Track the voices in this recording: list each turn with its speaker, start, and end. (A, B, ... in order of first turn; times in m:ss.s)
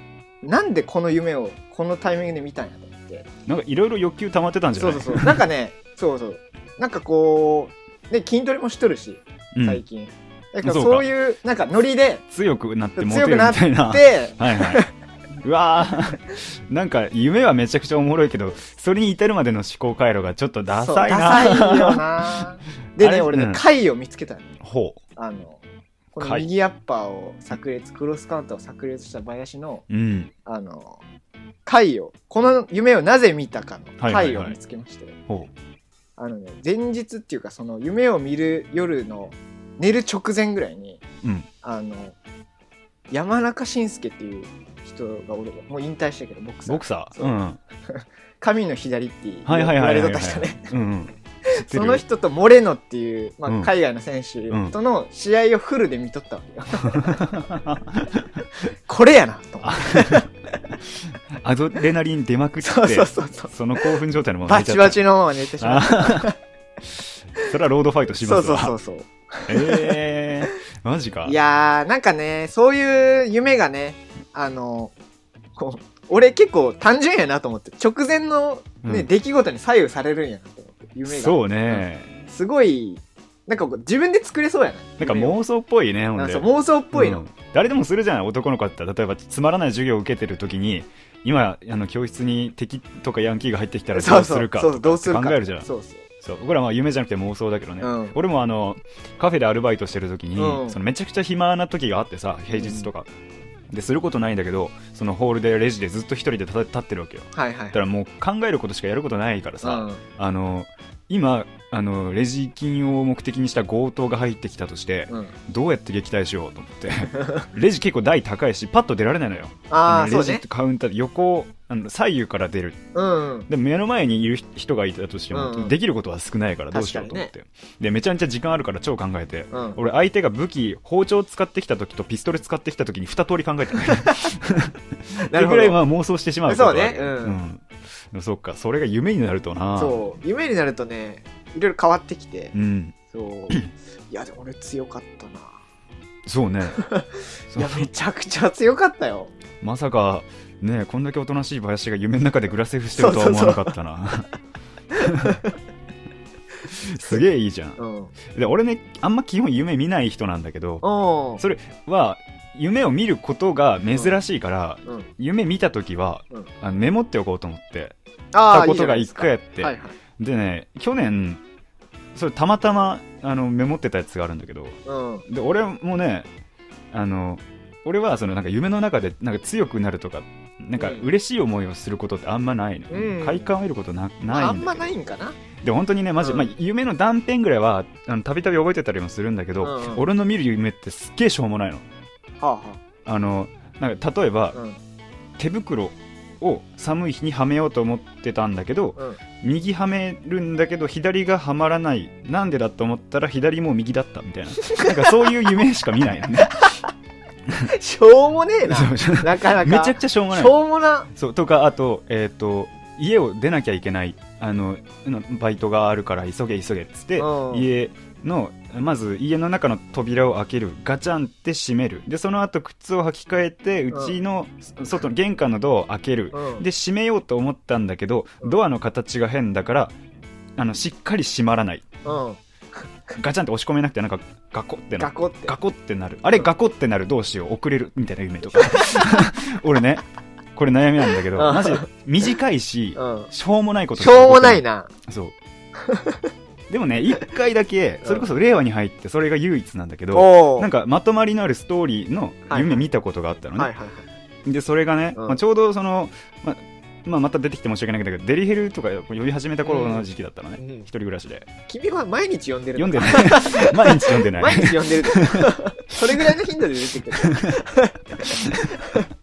0:00.4-0:03.3 A
0:03.4-0:05.4 B
0:04.7-0:12.2 A
0:09.5-0:09.8 B
0:10.6-0:11.0 B
0:12.3-0:14.8 B
0:13.0-0:14.9 A
0:15.4-0:22.4 B
0:20.8-0:24.6 A
0:23.0-0:23.6 B
0:24.6-0:25.0 B
0:25.2-0:25.6 A
0:26.1-0:29.8 A
0:26.2-0:26.5 B
0:29.9-0:30.3 B
0:30.4-0:31.0 A
0:31.6-0:35.2 A
0:34.0-0:34.6 B
0:36.2-0:41.0 A
0:41.2-0:41.5 B
0:41.6-0:42.2 A
0:43.1-0:47.4 A
0:46.7-0:47.6 B
0:47.9-0:50.7 A
0:49.4-0:52.0 B
0:51.5-0:57.3 A
0:54.5-0:54.7 B
0:56.8-0:58.4 B
0:58.9-1:00.3 A
0:59.6-1:00.3 B
1:01.0-1:05.0 B
1:02.6-1:06.4 A
1:05.6-1:06.3 B
1:07.0-1:08.7 B
1:08.2-1:10.0 A
1:09.5-1:11.4 B
1:11.2-1:14.9 A
1:15.6-1:25.4 A
1:18.8-1:19.1 B
1:21.1-1:22.2 B
1:25.0-1:35.7 B
1:26.2-1:27.2 A
1:33.9-1:36.1 A
1:36.2-1:43.1 B
1:37.8-1:38.2 A
1:40.4-1:40.8 A
1:42.5-1:42.9 A
1:43.7-2:02.8 B
1:47.3-1:47.8 A
1:49.6-1:50.0 A
1:55.1-1:55.3 A
1:57.1-1:57.5 A
1:59.7-2:00.4 A
2:02.9-2:03.5 A
2:03.5-2:20.0 B
2:05.3-2:05.7 A
2:06.7-2:07.3 A
2:09.5-2:09.8 A
2:13.9-2:14.3 A
2:15.2-2:15.8 A
2:16.5-2:17.4 A
2:19.8-2:22.5 A
2:22.5-2:22.9 B
2:23.1-2:25.5 A
2:26.2-2:26.8 B
2:26.8-2:29.3 A
2:27.5-2:27.9 B
2:29.6-2:34.3 B
2:33.0-2:33.7 A
2:34.9-2:35.5 A
2:35.0-2:35.4 B
2:36.7-2:40.8 B
2:37.8-2:38.1 A
2:40.8-2:41.4 A
2:41.4-2:48.0 B
2:48.3-2:50.0 A
2:48.5-2:51.4 B
2:52.1-2:56.3 B
2:54.8-2:55.2 A
2:56.9-3:04.9 B
3:00.8-3:01.1 A
3:02.9-3:03.5 A
3:04.3-3:05.4 A
3:05.6-3:11.8 B
3:06.2-3:06.5 A
3:09.6-3:10.0 A
3:12.4-3:12.8 A
3:13.0-3:14.6 B
3:14.5-3:14.8 A
3:15.4-3:26.7 B
3:24.6-3:25.3 A
3:27.6-3:31.1 A
3:28.7-3:49.9 B
3:37.2-3:37.7 A
3:43.9-3:44.2 A
3:46.3-3:46.6 A
3:50.6-3:51.9 B
3:52.0-3:52.4 A
3:53.1-4:00.0 B
3:55.0-3:55.6 A
3:58.5-3:59.2 A
4:00.5-4:05.3 B
4:01.3-4:01.9 A
4:03.0-4:03.3 A
4:04.0-4:04.9 A
4:05.8-4:06.3 A
4:06.7-4:13.7 B
4:08.0-4:08.3 A
4:10.1-4:10.7 A
4:12.5-4:12.9 A
4:13.6-4:14.1 A
4:14.4-4:21.5 B
4:15.1-4:15.4 A
4:19.6-4:20.1 A
4:20.6-4:20.9 A
4:21.7-4:29.1 A
4:22.8-4:26.3 B
4:27.2-4:27.6 B
4:28.2-4:28.8 B